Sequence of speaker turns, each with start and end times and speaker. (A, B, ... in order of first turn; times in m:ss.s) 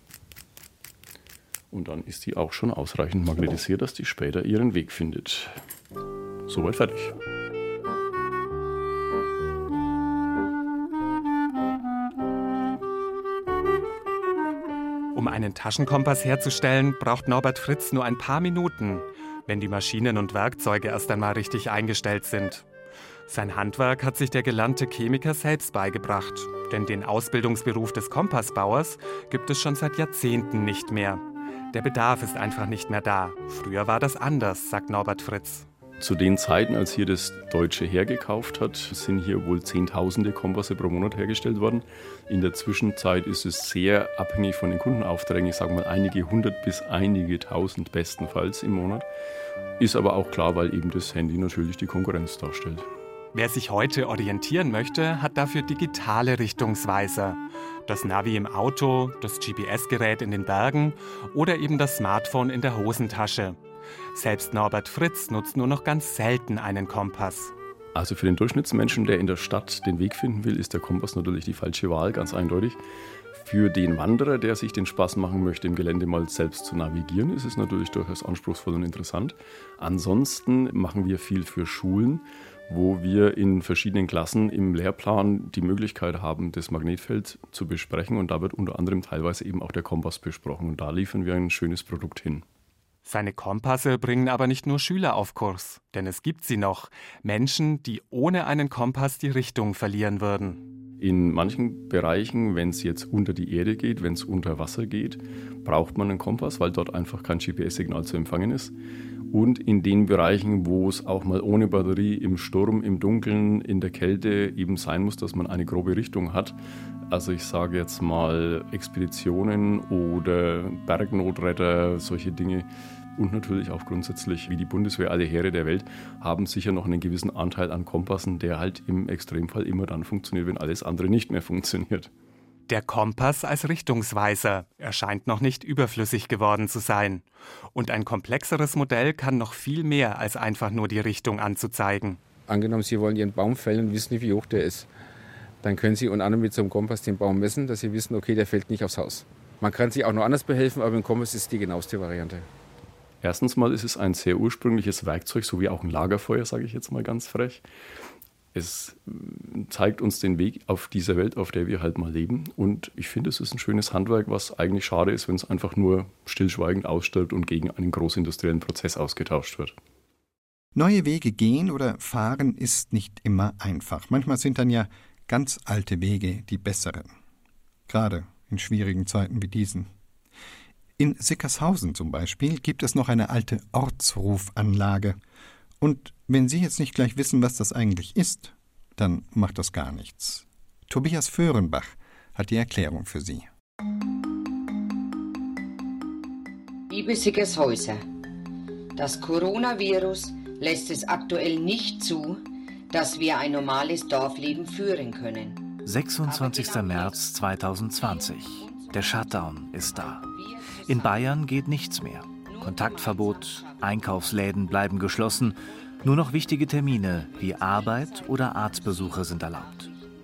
0:01.7-0:05.6 A
0:06.5-0:07.1 A
0:15.1-0:22.6 B
0:23.3-0:35.7 B
0:36.0-0:49.1 A
0:49.8-0:52.9 A
0:53.3-1:03.6 B
1:04.1-1:07.5 B
1:07.9-1:12.8 A
1:13.3-1:32.4 A
1:33.0-1:40.6 B
1:41.0-1:48.7 A
1:49.3-1:56.6 A
1:57.1-2:12.1 A
2:12.7-2:22.2 B
2:22.5-2:24.9 C
2:25.6-2:32.5 C
2:33.2-2:37.6 A
2:38.5-2:49.7 A
2:50.7-2:57.2 D
2:57.9-2:59.9 D
3:01.0-3:05.2 D
3:05.8-3:13.5 D
3:16.9-3:18.0 E
3:19.0-3:25.6 E
3:25.8-3:30.3 F
3:26.2-3:27.2 E
3:27.9-3:31.2 E
3:30.8-3:39.9 F
3:32.3-3:34.0 E
3:37.3-3:39.8 E